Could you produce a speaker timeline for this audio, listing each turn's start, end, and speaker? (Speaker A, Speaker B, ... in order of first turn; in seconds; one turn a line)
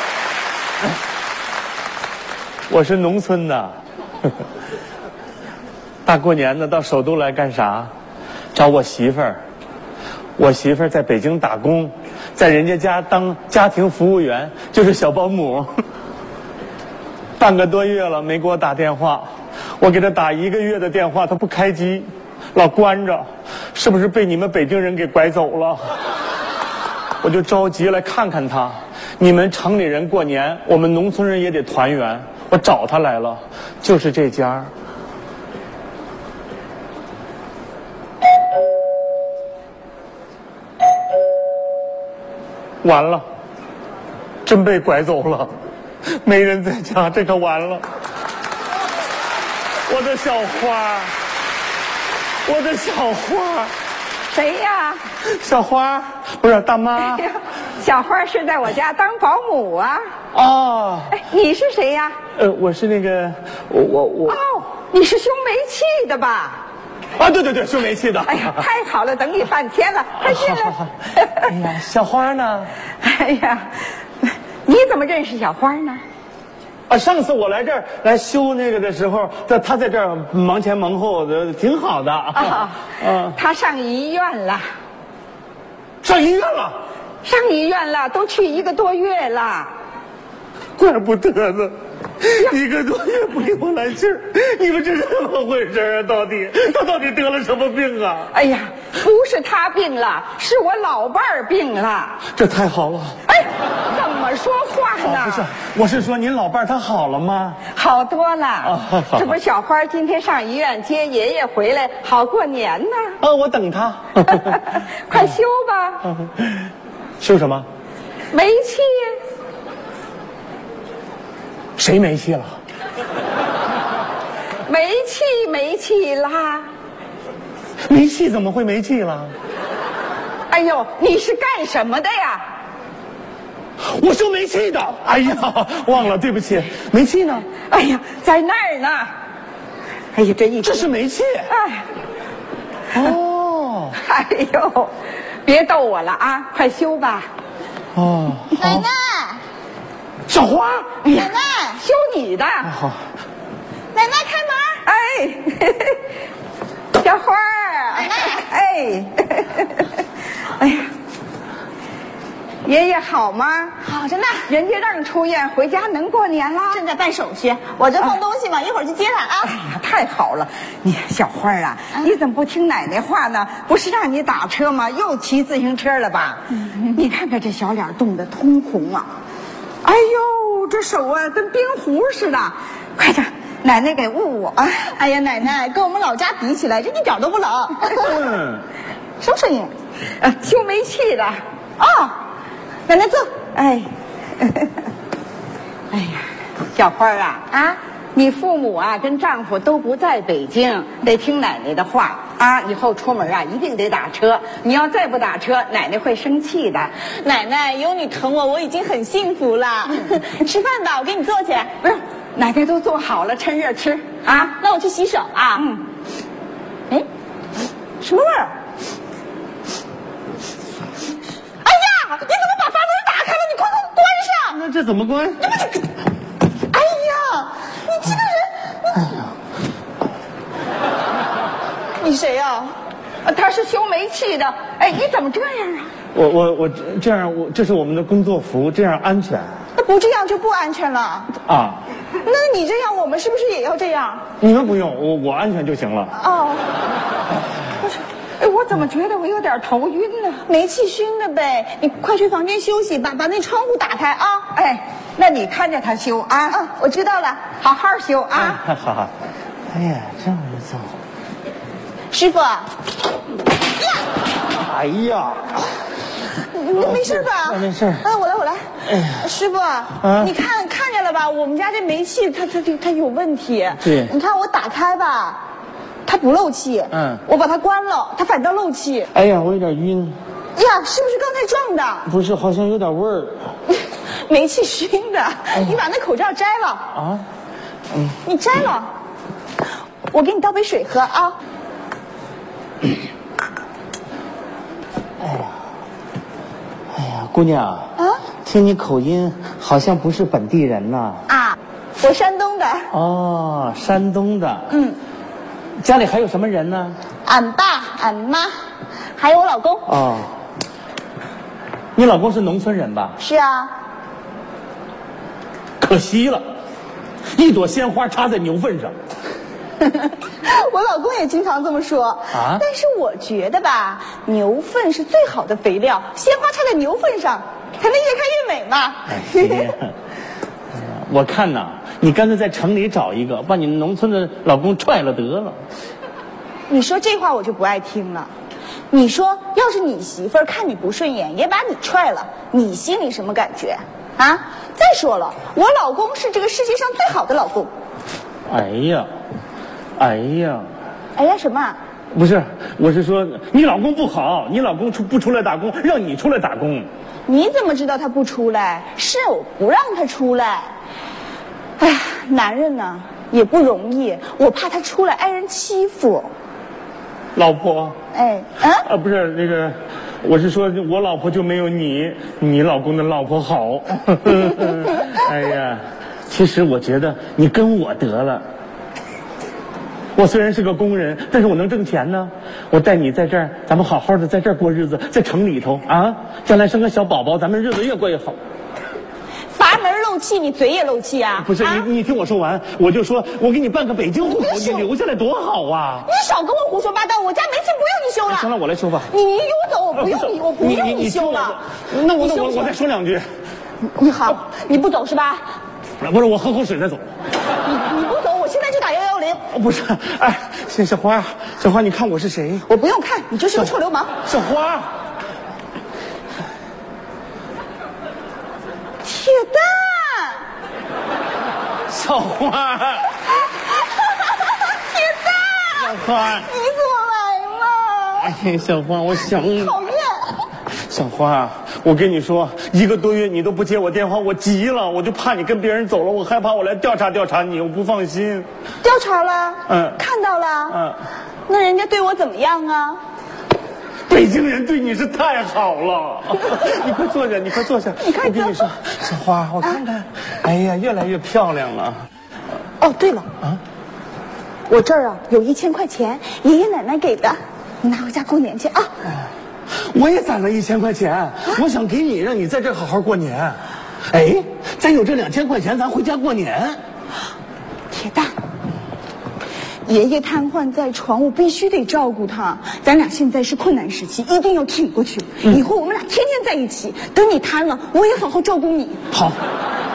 Speaker A: 2.7-3.7
Speaker A: 6.0-7.9
Speaker A: 8.5-9.4
Speaker A: 10.4-15.7
Speaker A: 17.4-19.3
Speaker A: 19.8-25.9
Speaker A: 27.2-34.7
Speaker A: 42.8-43.2
Speaker A: 44.5-45.5
Speaker A: 46.2-47.9
Speaker A: 49.9-51.1
Speaker A: 52.4-53.7
Speaker B: 54.3-55.0
Speaker A: 55.2-57.2
Speaker B: 57.0-60.0
Speaker A: 60.3-61.2
Speaker B: 61.1-62.1
Speaker A: 62.4-64.4
Speaker B: 64.3-66.6
Speaker A: 67.2-68.6
Speaker B: 68.3-71.5
Speaker A: 70.2-72.7
Speaker B: 73.0-76.0
Speaker A: 76.9-83.4
Speaker B: 82.3-84.6
Speaker A: 86.0-86.8
Speaker B: 87.2-89.7
Speaker A: 90.8-98.3
Speaker B: 98.3-102.2
Speaker A: 102.3-103.2
Speaker B: 103.3-105.5
Speaker A: 105.0-107.6
Speaker B: 107.7-113.2
Speaker A: 108.6-109.4
Speaker A: 113.2-114.6
Speaker B: 114.2-116.0
Speaker A: 116.1-117.7
Speaker B: 118.3-119.2
Speaker A: 121.8-122.5
Speaker B: 124.7-126.7
Speaker A: 127.8-129.3
Speaker B: 130.5-132.4
Speaker A: 133.8-137.5
Speaker B: 137.6-139.1
Speaker B: 140.1-140.9
Speaker A: 140.6-141.5
Speaker B: 141.5-141.8
Speaker A: 142.9-144.0
Speaker B: 143.9-144.9
Speaker B: 145.4-147.3
Speaker A: 147.9-148.9
Speaker C: 148.5-149.4
Speaker A: 150.3-150.9
Speaker B: 151.0-152.8
Speaker C: 151.1-151.8
Speaker A: 152.7-153.0
Speaker C: 153.9-154.8
Speaker B: 154.8-156.0
Speaker B: 156.9-160.0
Speaker C: 158.0-158.4
Speaker B: 160.6-160.9
Speaker B: 162.6-163.8
Speaker C: 163.8-164.4
Speaker B: 164.4-166.8
Speaker C: 166.7-169.5
Speaker B: 169.4-179.1
Speaker B: 179.8-184.8
Speaker C: 184.8-188.2
Speaker A: 187.9-188.6
Speaker C: 189.2-189.7
Speaker B: 190.2-191.9
Speaker C: 192.9-193.3
Speaker B: 193.3-194.7
Speaker B: 195.9-197.5
Speaker C: 197.5-197.8
Speaker B: 198.1-206.9
Speaker C: 207.0-211.7
Speaker B: 211.8-214.6
Speaker C: 214.5-215.6
Speaker B: 215.5-215.8
Speaker C: 218.0-218.5
Speaker C: 221.6-224.6
Speaker A: 224.5-225.5
Speaker C: 225.4-225.8
Speaker C: 226.7-229.0
Speaker A: 229.0-229.3
Speaker C: 232.0-232.7
Speaker B: 233.2-235.9
Speaker A: 236.1-239.5
Speaker C: 239.8-241.3
Speaker A: 241.5-241.8
Speaker C: 242.2-244.2
Speaker A: 244.4-246.1
Speaker C: 246.1-246.7
Speaker B: 247.8-250.4
Speaker C: 250.4-254.5
Speaker B: 254.5-256.6
Speaker C: 256.5-257.5
Speaker B: 257.6-258.6
Speaker A: 258.3-259.1
Speaker A: 259.7-260.9
Speaker C: 262.1-262.7
Speaker A: 264.5-265.7
Speaker C: 266.4-268.6
Speaker A: 266.7-268.1
Speaker A: 268.9-269.3
Speaker C: 269.1-275.4
Speaker A: 270.0-270.3
Speaker A: 273.8-274.1
Speaker C: 276.1-279.1
Speaker A: 276.9-277.2
Speaker A: 279.1-280.2
Speaker C: 280.6-282.1
Speaker A: 282.1-283.4
Speaker C: 284.1-286.9
Speaker A: 286.9-287.2
Speaker C: 288.2-288.9
Speaker C: 290.1-291.4
Speaker A: 295.2-295.6
Speaker A: 296.9-297.9
Speaker C: 298.0-298.2
Speaker A: 298.4-301.2
Speaker C: 301.3-302.9
Speaker A: 302.9-304.7
Speaker C: 304.7-305.0
Speaker A: 305.8-307.0
Speaker C: 307.2-308.5
Speaker C: 309.2-309.9
Speaker A: 309.9-310.3
Speaker A: 311.9-313.2
Speaker C: 313.2-313.7
Speaker A: 315.8-316.4
Speaker A: 317.3-318.9
Speaker C: 319.8-329.8
Speaker A: 322.3-322.6
Speaker A: 329.1-329.9
Speaker A: 330.7-335.6
Speaker C: 336.7-338.3
Speaker C: 338.9-347.7
Speaker A: 348.5-349.1
Speaker A: 350.0-350.7
Speaker C: 351.1-351.8
Speaker A: 352.1-356.9
Speaker C: 357.3-360.7
Speaker C: 361.8-366.3
Speaker A: 367.3-367.9
Speaker C: 368.1-368.9
Speaker A: 368.8-378.4
Speaker A: 380.1-388.4
Speaker C: 389.5-391.9
Speaker A: 391.4-396.1
Speaker C: 394.4-394.9
Speaker C: 396.1-398.5
Speaker A: 398.3-399.1
Speaker C: 399.1-401.6
Speaker A: 400.0-403.2
Speaker C: 402.1-402.7
Speaker C: 403.8-405.4
Speaker A: 406.0-407.1
Speaker C: 407.6-409.4
Speaker A: 409.5-412.7
Speaker C: 412.7-414.1
Speaker A: 413.5-414.9
Speaker C: 419.0-420.4
Speaker A: 421.9-423.1
Speaker C: 423.8-428.3
Speaker A: 425.7-426.5
Speaker A: 428.2-429.8
Speaker C: 429.4-430.4
Speaker A: 430.7-438.5
Speaker C: 438.8-440.8
Speaker A: 439.7-440.0
Speaker A: 440.7-441.0
Speaker C: 441.5-443.0
Speaker A: 444.1-452.1
Speaker C: 448.0-448.7
Speaker C: 452.8-453.3
Speaker C: 454.7-458.9
Speaker A: 459.7-466.8
Speaker C: 467.9-468.3
Speaker C: 469.9-479.0
Speaker A: 479.1-479.4